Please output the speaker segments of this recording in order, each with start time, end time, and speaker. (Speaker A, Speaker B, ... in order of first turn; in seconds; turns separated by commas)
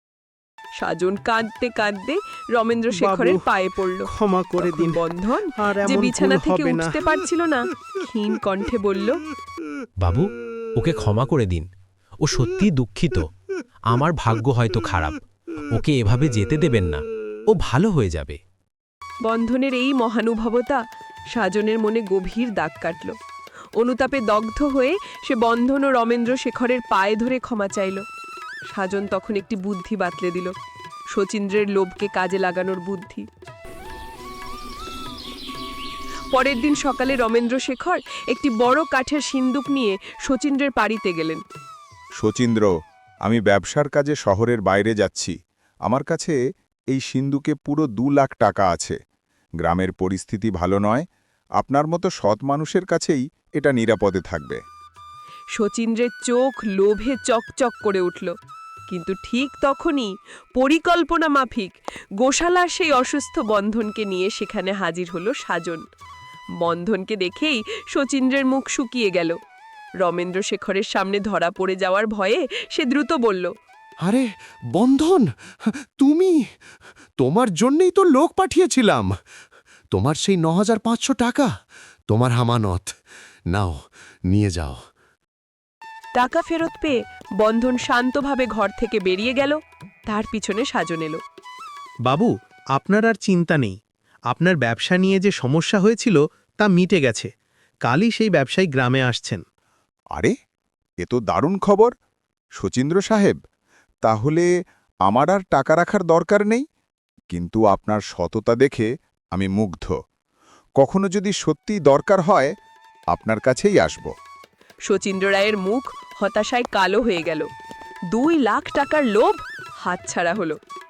Speaker A: 0.8-9.2, Speaker B: 2.9-3.4, Speaker B: 4.0-5.0, Speaker B: 5.5-7.0, Speaker C: 10.0-11.7, Speaker C: 12.2-13.2, Speaker C: 13.9-15.2, Speaker C: 15.7-18.4, Speaker A: 19.2-20.8, Speaker A: 21.3-23.1, Speaker A: 23.8-28.0, Speaker A: 28.7-30.5, Speaker A: 31.1-33.3, Speaker A: 36.3-41.4, Speaker D: 42.2-42.7, Speaker D: 43.2-45.3, Speaker D: 45.9-46.4, Speaker D: 46.9-49.0, Speaker D: 49.6-51.0, Speaker D: 51.6-54.6, Speaker A: 55.5-58.3, Speaker A: 58.9-65.8, Speaker A: 66.6-69.3, Speaker A: 70.0-73.5, Speaker E: 74.0-76.5, Speaker E: 77.2-79.1, Speaker E: 79.9-81.5, Speaker E: 82.1-82.9, Speaker E: 83.5-84.8, Speaker A: 86.1-91.2, Speaker B: 92.1-93.8, Speaker B: 94.3-97.3, Speaker B: 97.8-99.4, Speaker D: 101.0-101.9, Speaker D: 102.6-103.4, Speaker D: 104.0-104.5, Speaker D: 105.0-106.6, Speaker D: 107.3-109.9, Speaker D: 110.8-112.5, Speaker D: 113.1-114.1, Speaker A: 114.8-117.5, Speaker A: 118.1-120.6